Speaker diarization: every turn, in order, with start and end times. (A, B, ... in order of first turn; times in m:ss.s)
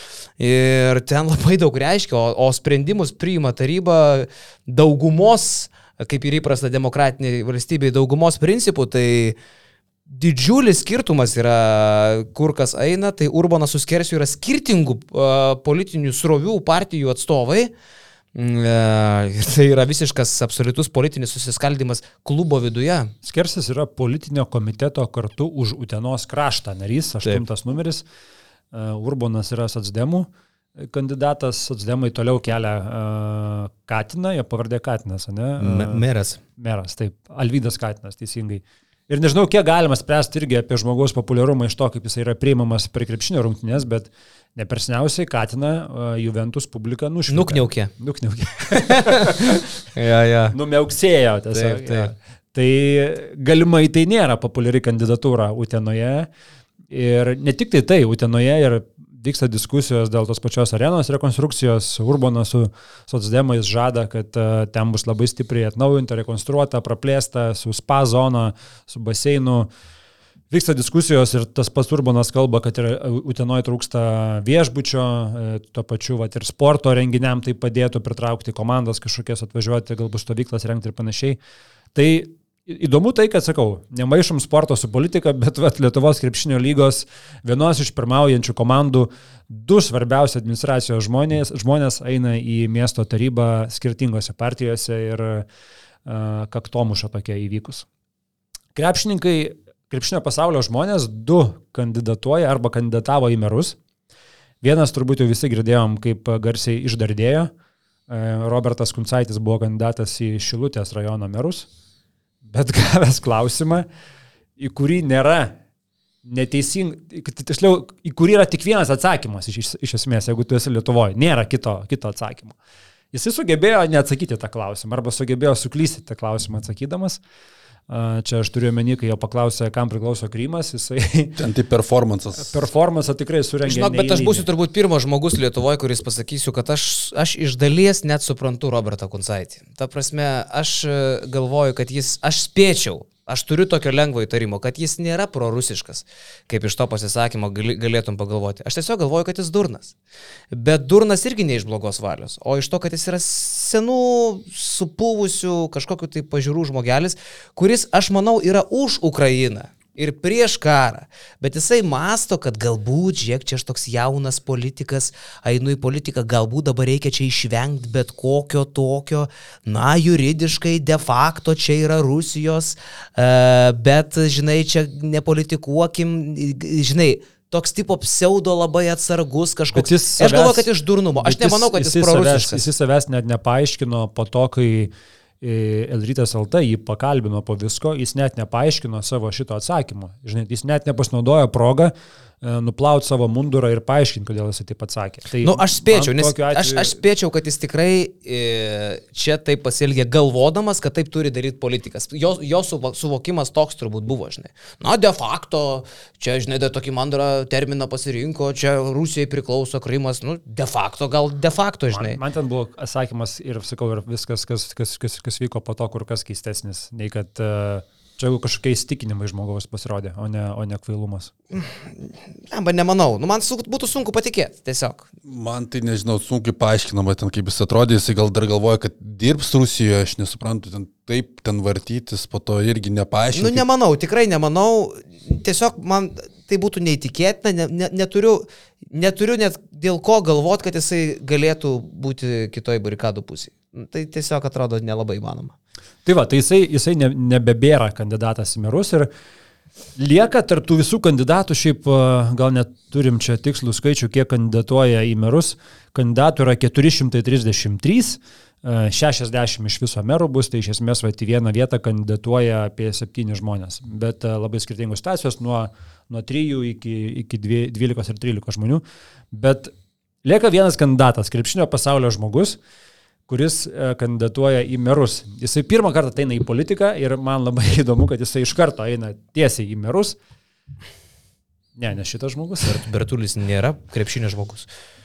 0:00.4-0:09.4 A
0:10.1-0:17.7 A
0:18.4-0:23.1 A
0:23.2-0:28.0 B
0:28.7-0:36.0 B
0:35.6-0:36.4 A
0:36.6-0:49.6 B
0:47.3-0:47.9 A
0:48.7-0:50.6 A
0:50.5-0:56.3 B
0:51.5-0:52.1 A
0:56.9-1:09.7 B
1:10.5-1:21.4 B
1:21.9-1:35.5 B
1:36.0-1:37.9 B
1:38.8-1:43.8 B
1:44.6-1:47.5 B
1:48.1-1:51.7 B
1:52.4-1:53.9 B
1:54.6-1:55.6 B
1:56.2-2:02.6 B
2:03.1-2:07.2 B
2:07.9-2:11.4 B
2:11.4-2:12.6 C
2:12.4-2:14.5 B
2:13.6-2:30.0 A
2:30.5-3:02.7 A
2:59.7-3:00.7 B
3:01.2-3:17.0 B
3:15.4-3:32.2 A
3:31.9-3:41.3 B
3:41.5-3:45.1 A
3:45.2-3:53.6 C
3:53.3-4:05.5 A
4:06.0-4:09.1 B
4:10.0-4:29.7 B
4:30.2-4:32.6 B
4:33.3-4:40.2 B
4:41.8-4:42.8 B
4:42.6-4:44.7 A